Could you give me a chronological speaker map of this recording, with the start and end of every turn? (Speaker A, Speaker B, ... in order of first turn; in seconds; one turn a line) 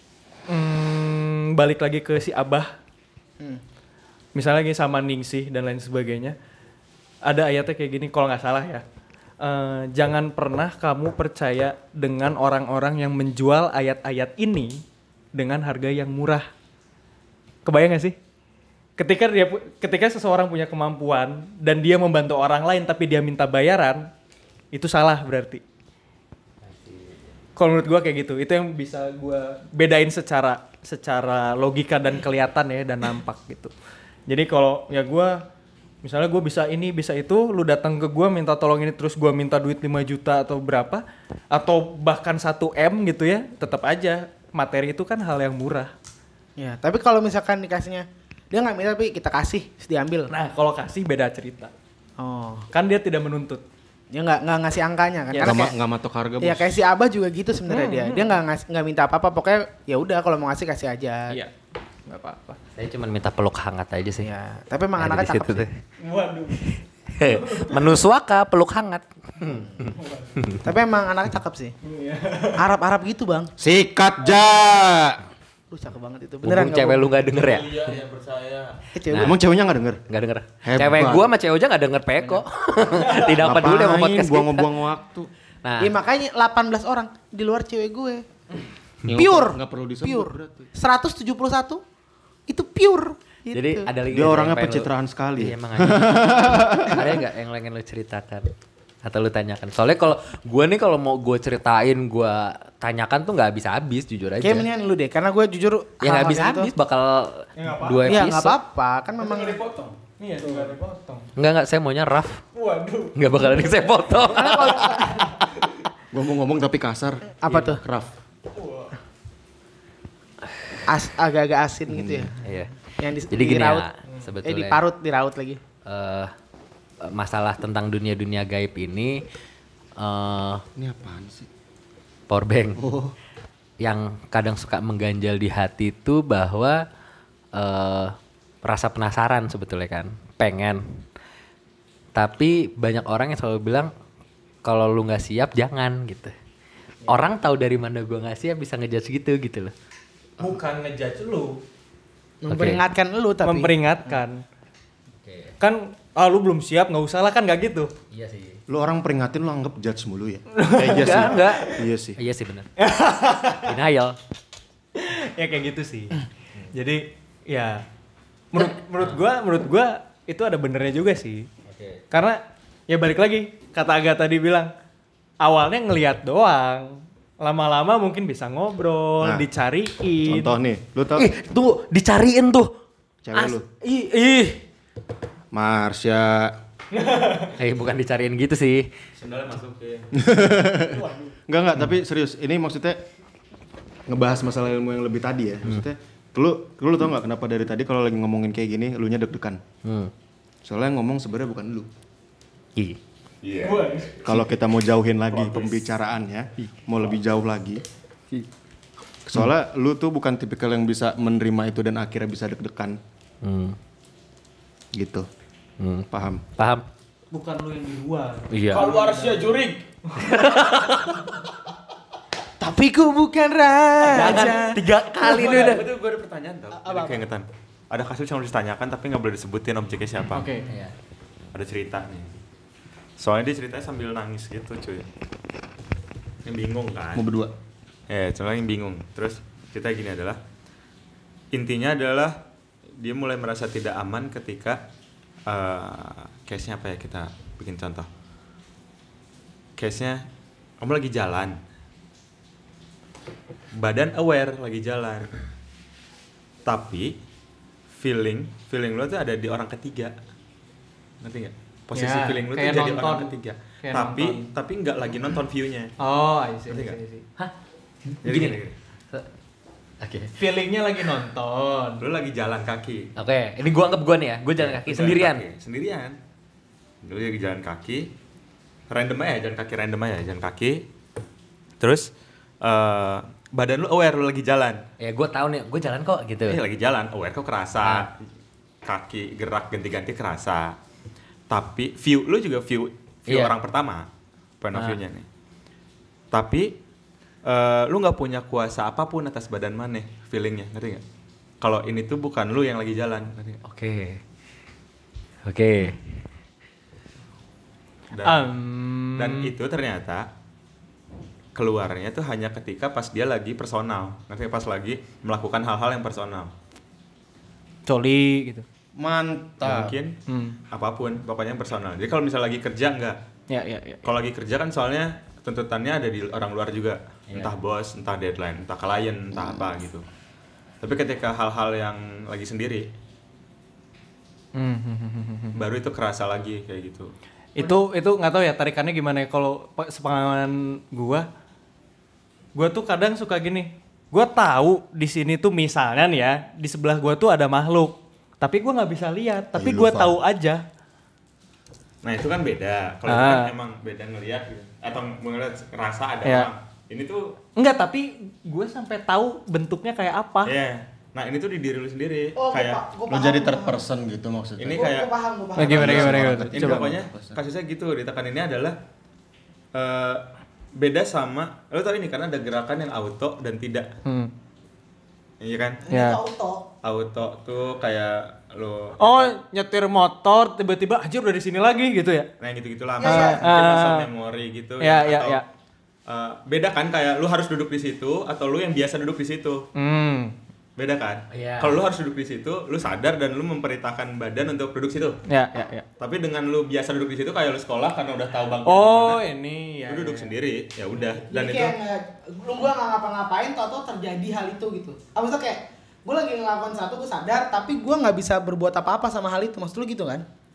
Speaker A: 0.5-2.7
Speaker A: 4.3-6.3
Speaker A: 7.2-8.8
Speaker A: 9.4-14.8
Speaker A: 15.3-16.5
Speaker A: 17.6-18.1
Speaker A: 19.0-24.1
Speaker A: 24.7-25.6
Speaker B: 26.6-27.3
Speaker A: 27.6-33.7
Speaker A: 34.3-35.4
Speaker A: 36.0-45.9
Speaker C: 46.6-50.3
Speaker A: 50.3-51.7
Speaker C: 52.2-52.7
Speaker A: 52.7-53.6
Speaker C: 54.1-55.7
Speaker A: 55.3-55.6
Speaker D: 55.4-56.8
Speaker C: 56.4-61.4
Speaker A: 57.7-58.4
Speaker A: 62.1-62.6
Speaker B: 62.8-64.3
Speaker C: 64.2-65.7
Speaker B: 65.0-65.7
Speaker A: 66.0-67.9
Speaker B: 67.1-70.7
Speaker A: 69.9-70.4
Speaker C: 70.6-71.7
Speaker A: 71.8-72.6
Speaker C: 72.6-73.5
Speaker D: 73.6-75.2
Speaker C: 75.7-77.1
Speaker B: 76.4-77.9
Speaker E: 77.2-78.8
Speaker C: 78.9-79.3
Speaker D: 79.1-80.0
Speaker B: 80.1-84.7
Speaker D: 80.6-81.3
Speaker D: 83.4-85.3
Speaker B: 85.6-86.0
Speaker C: 85.8-88.2
Speaker D: 89.0-90.7
Speaker C: 89.1-91.8
Speaker C: 92.5-93.9
Speaker B: 93.5-98.5
Speaker D: 94.1-97.1
Speaker B: 99.0-104.7
Speaker C: 104.4-106.7
Speaker B: 106.0-108.6
Speaker A: 107.6-108.3
Speaker C: 108.0-109.6
Speaker E: 109.4-109.9
Speaker A: 110.1-111.3
Speaker B: 111.3-112.4
Speaker A: 112.5-115.5
Speaker B: 113.1-115.0
Speaker C: 114.3-115.3
Speaker D: 116.1-118.2
Speaker C: 117.4-117.8
Speaker A: 118.5-118.9
Speaker C: 120.9-122.4
Speaker D: 121.9-122.3
Speaker B: 122.4-122.7
Speaker C: 123.0-123.8
Speaker B: 123.3-124.8
Speaker C: 124.4-125.6
Speaker B: 125.8-126.3
Speaker B: 127.0-129.2
Speaker B: 130.0-130.6
Speaker D: 130.8-131.5
Speaker B: 132.3-132.8
Speaker D: 132.8-133.1
Speaker B: 133.8-136.8
Speaker B: 137.5-140.8
Speaker B: 142.1-143.9
Speaker B: 144.6-146.3
Speaker B: 147.1-149.7
Speaker A: 150.4-151.6
Speaker C: 152.4-154.1
Speaker B: 152.5-152.8
Speaker A: 153.4-154.4
Speaker B: 155.2-155.5
Speaker A: 155.6-157.9
Speaker B: 158.1-158.6
Speaker D: 158.7-162.2
Speaker A: 160.5-161.8
Speaker B: 160.8-162.7
Speaker A: 162.8-163.7
Speaker B: 163.6-164.2
Speaker A: 164.9-167.8
Speaker A: 168.5-171.5
Speaker B: 168.6-169.2
Speaker B: 171.7-172.0
Speaker A: 172.1-174.7
Speaker A: 175.4-180.6
Speaker D: 179.2-179.5
Speaker D: 180.3-181.3
Speaker B: 181.2-182.7
Speaker D: 183.2-183.6
Speaker B: 183.3-184.6
Speaker D: 185.5-186.6
Speaker A: 186.9-187.5
Speaker B: 187.6-188.9
Speaker E: 189.2-190.1
Speaker D: 190.1-193.0
Speaker A: 190.9-191.3
Speaker D: 194.1-199.6
Speaker B: 199.8-200.1
Speaker D: 200.6-201.9
Speaker E: 203.4-204.0
Speaker A: 203.6-204.3
Speaker D: 204.2-207.8
Speaker E: 205.3-205.7
Speaker D: 209.2-213.0
Speaker B: 213.4-213.8
Speaker D: 214.9-215.3
Speaker B: 215.8-216.8
Speaker D: 216.1-216.4
Speaker A: 217.3-219.5
Speaker B: 218.5-218.9
Speaker E: 218.7-219.8
Speaker A: 220.1-220.5
Speaker B: 220.2-221.2
Speaker C: 222.6-224.7
Speaker A: 224.0-224.8
Speaker E: 224.1-230.5
Speaker B: 224.2-225.9
Speaker C: 226.8-227.2
Speaker A: 230.3-230.7
Speaker B: 230.7-230.9
Speaker E: 231.5-232.4
Speaker E: 233.2-235.1
Speaker E: 236.4-237.2
Speaker D: 237.1-237.5
Speaker E: 238.1-240.4
Speaker E: 241.5-242.4
Speaker E: 243.0-244.8
Speaker E: 245.4-248.1
Speaker E: 249.8-250.2
Speaker E: 250.8-251.6
Speaker E: 253.8-255.3
Speaker E: 256.6-257.2
Speaker E: 257.9-260.1
Speaker E: 261.2-265.9
Speaker A: 261.9-264.5
Speaker A: 266.0-267.2
Speaker E: 266.7-267.0
Speaker B: 268.1-269.3
Speaker E: 268.2-268.7
Speaker B: 270.0-270.3
Speaker A: 270.4-272.0
Speaker E: 272.0-273.1
Speaker B: 273.2-275.4
Speaker E: 274.8-276.2
Speaker E: 277.0-278.1
Speaker E: 278.9-280.9
Speaker E: 281.8-282.1
Speaker E: 282.6-284.8
Speaker B: 285.0-286.6
Speaker E: 286.5-288.1
Speaker B: 287.8-288.1
Speaker E: 288.8-290.8
Speaker E: 291.5-294.1
Speaker B: 293.3-293.5
Speaker E: 294.6-295.2
Speaker E: 296.3-296.8
Speaker E: 297.4-301.0
Speaker E: 301.6-303.6
Speaker B: 303.6-304.2
Speaker B: 305.4-306.0
Speaker E: 308.1-308.5
Speaker A: 308.2-309.5
Speaker E: 309.1-310.3
Speaker E: 311.5-316.5
Speaker A: 317.9-318.6
Speaker D: 318.9-320.0
Speaker E: 319.6-320.2
Speaker A: 320.3-320.6
Speaker E: 320.7-323.2
Speaker A: 323.5-324.0
Speaker E: 324.0-330.0
Speaker E: 330.8-332.9
Speaker A: 334.5-335.6
Speaker E: 335.6-337.1
Speaker A: 337.6-341.2
Speaker A: 342.5-350.6
Speaker D: 349.5-350.2
Speaker E: 352.0-357.4
Speaker A: 353.1-353.5
Speaker A: 357.6-360.5
Speaker E: 360.4-362.8
Speaker C: 362.4-363.8
Speaker D: 363.1-364.9
Speaker E: 364.6-365.1
Speaker C: 364.7-366.1
Speaker A: 365.6-366.9
Speaker D: 365.6-367.4
Speaker E: 365.8-368.8
Speaker E: 369.7-373.9
Speaker A: 374.0-374.3
Speaker E: 375.4-375.8
Speaker C: 375.8-376.7
Speaker A: 375.9-376.2
Speaker E: 376.8-379.3
Speaker A: 379.0-382.3
Speaker E: 382.4-385.4
Speaker C: 383.0-383.5
Speaker A: 383.0-384.1
Speaker A: 384.8-385.4
Speaker E: 386.1-389.6
Speaker A: 389.7-390.3
Speaker E: 390.8-395.2
Speaker B: 391.3-391.8
Speaker A: 395.3-395.9
Speaker E: 396.0-399.2
Speaker A: 398.6-400.3
Speaker E: 399.9-401.7
Speaker C: 401.2-410.2